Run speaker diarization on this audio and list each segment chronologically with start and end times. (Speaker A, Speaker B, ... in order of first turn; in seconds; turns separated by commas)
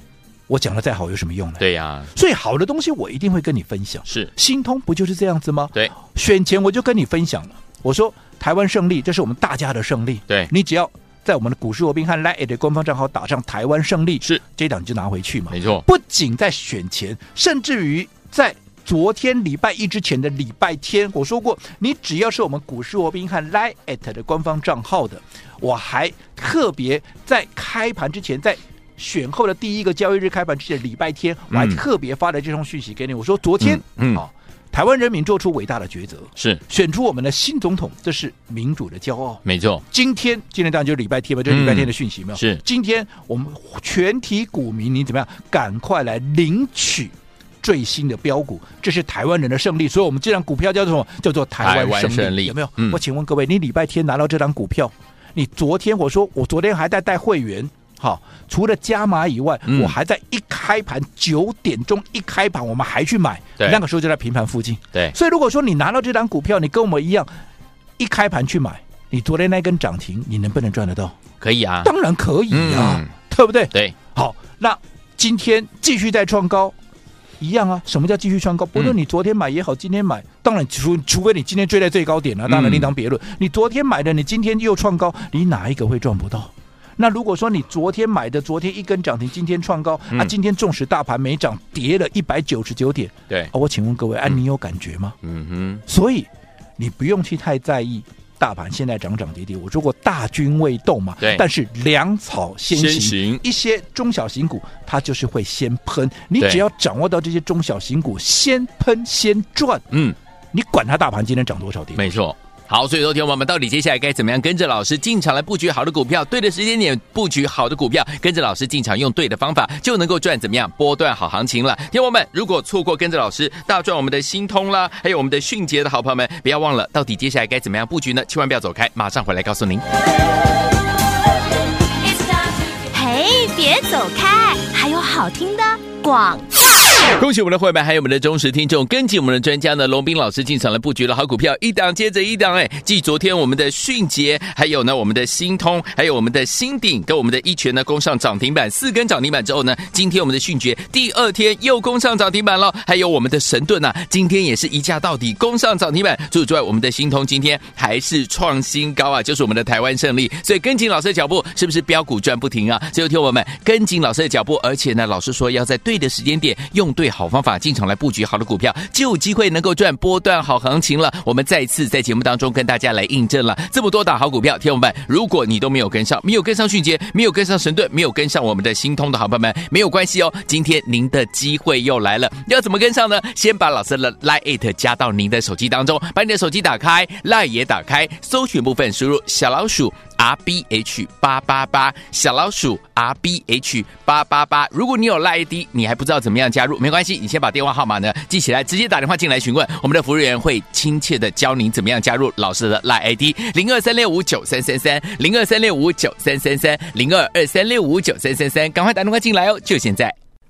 Speaker A: 0.5-67.3, Speaker B: 1.6-2.1, Speaker B: 15.5-15.8, Speaker B: 31.5-31.8, Speaker B: 33.6-34.2, Speaker B: 39.4-39.8, Speaker B: 41.5-42.6, Speaker B: 51.6-53.0, Speaker B: 59.7-60.0, Speaker A: 68.0-71.2, Speaker B: 71.4-71.9, Speaker A: 71.8-76.8, Speaker B: 72.5-73.1, Speaker A: 77.4-95.2, Speaker B: 82.5-82.9, Speaker B: 95.2-95.8, Speaker A: 95.9-109.8, Speaker B: 102.7-103.4, Speaker B: 109.9-110.2, Speaker A: 110.5-112.2, Speaker B: 112.0-129.8, Speaker C: 132.0-136.5, Speaker B: 137.2-210.2